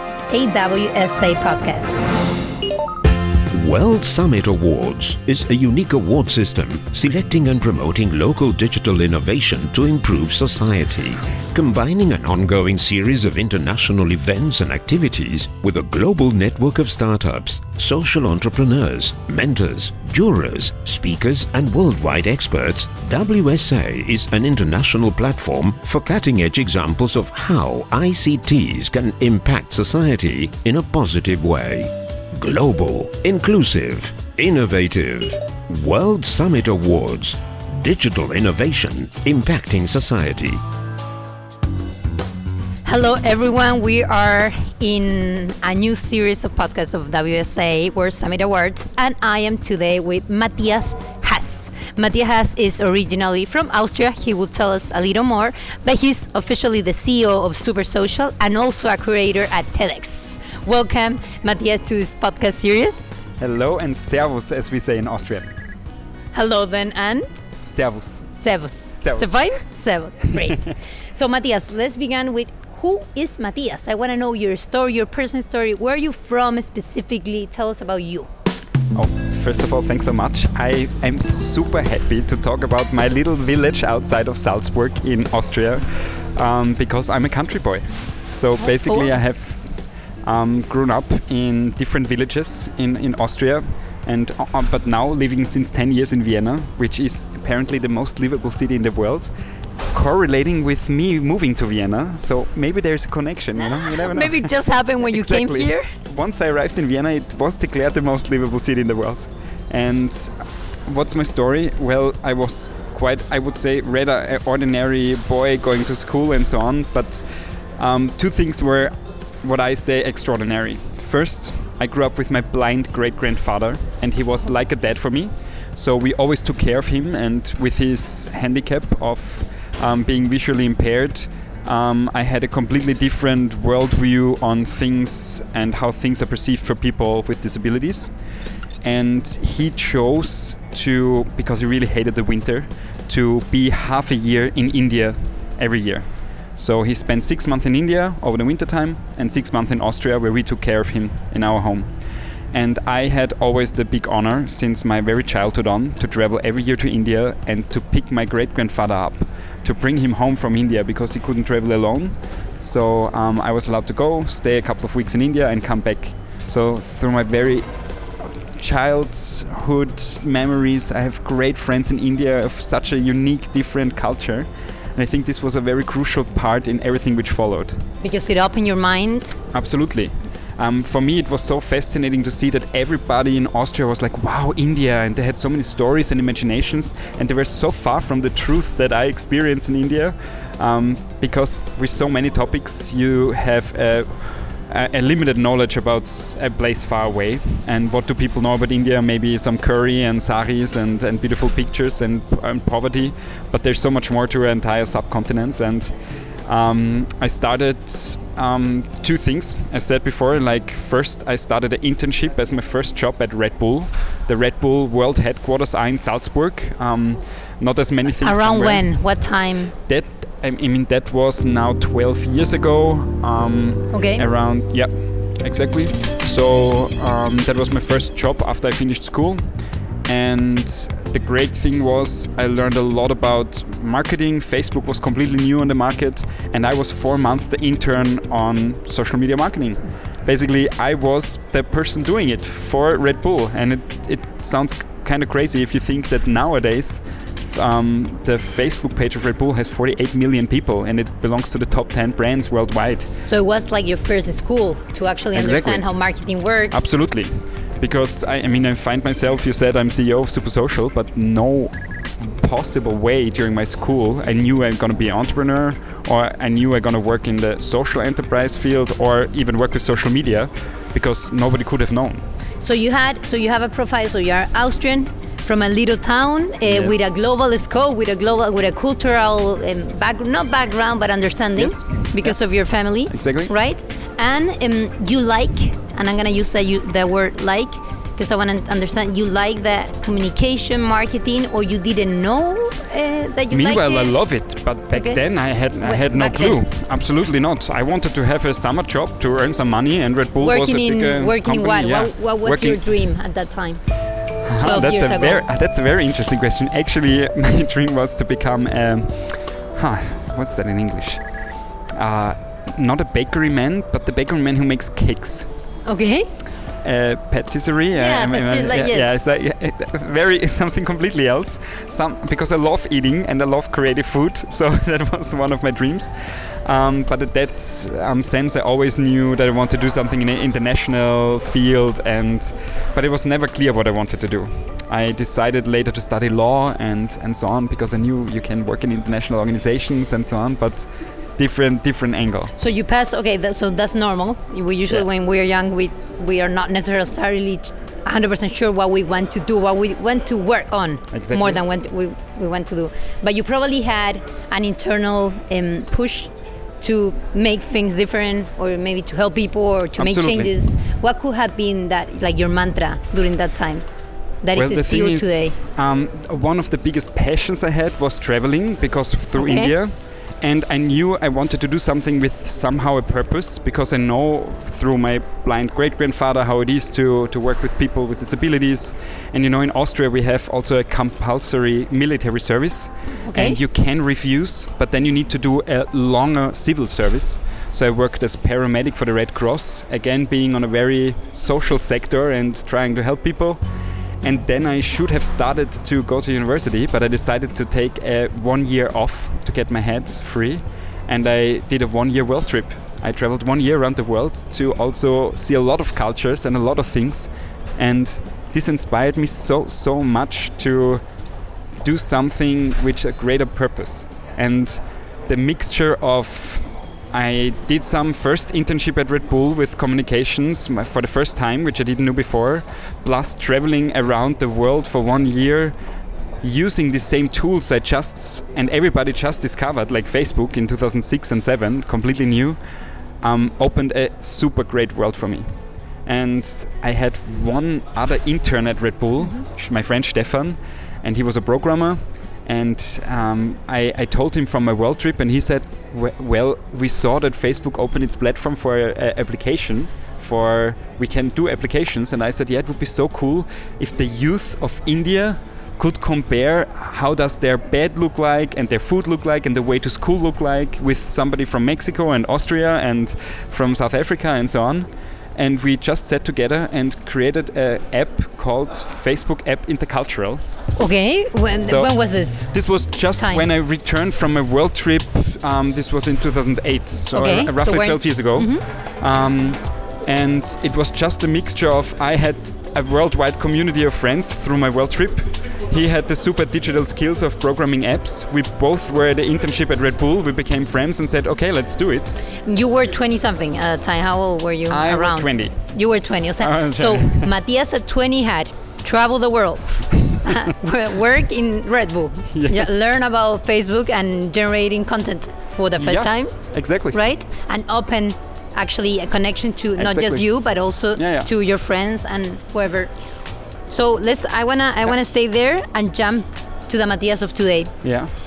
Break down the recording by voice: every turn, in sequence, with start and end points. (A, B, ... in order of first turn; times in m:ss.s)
0:00.3-0:01.9 A
0:03.5-0:40.6 B
0:42.8-1:03.0 A
1:03.4-1:05.5 C
1:06.3-1:07.4 A
1:07.6-1:08.3 C
1:08.3-1:18.3 A
1:09.0-1:09.4 C
1:18.9-1:39.3 C
1:28.6-1:29.2 A
1:39.9-2:18.1 C
1:43.8-1:45.9 A
2:18.8-2:32.0 C
2:32.5-2:57.8 C
2:58.0-2:59.4 A
2:59.5-3:26.0 C
3:26.5-3:39.4 C
3:38.1-3:39.7 A
3:39.9-3:49.5 C
3:43.9-3:44.2 A
3:50.0-4:13.1 C
4:13.2-4:16.9 A
4:15.3-4:32.2 C
4:32.6-4:54.2 A
4:36.6-4:37.1 C
4:41.6-4:43.5 C
4:53.5-5:03.0 C
4:54.9-4:56.6 A
5:00.4-5:03.9 A
5:04.4-5:11.2 C
5:04.6-5:05.5 A
5:12.0-5:15.5 C
5:15.9-5:16.3 A
5:16.8-5:42.6 C
5:18.0-5:19.2 A
5:42.6-6:03.9 A
5:51.1-5:51.6 C
6:00.0-6:00.8 C
6:04.4-6:05.6 A
6:04.5-6:33.6 C
6:09.3-6:09.7 A
6:23.2-6:23.6 A
6:34.2-6:51.0 C
6:51.8-7:05.8 C
7:06.4-7:12.6 C
7:13.2-7:50.4 C
7:50.8-7:53.5 A
7:51.6-8:12.2 C
7:57.1-7:58.6 A
8:12.4-8:26.4 A
8:14.7-8:15.7 C
8:16.4-8:17.3 C
8:22.3-8:22.9 C
8:25.8-8:27.0 C
8:26.9-8:32.9 A
8:29.8-8:31.3 C
8:33.7-8:37.8 A
8:37.8-8:38.1 C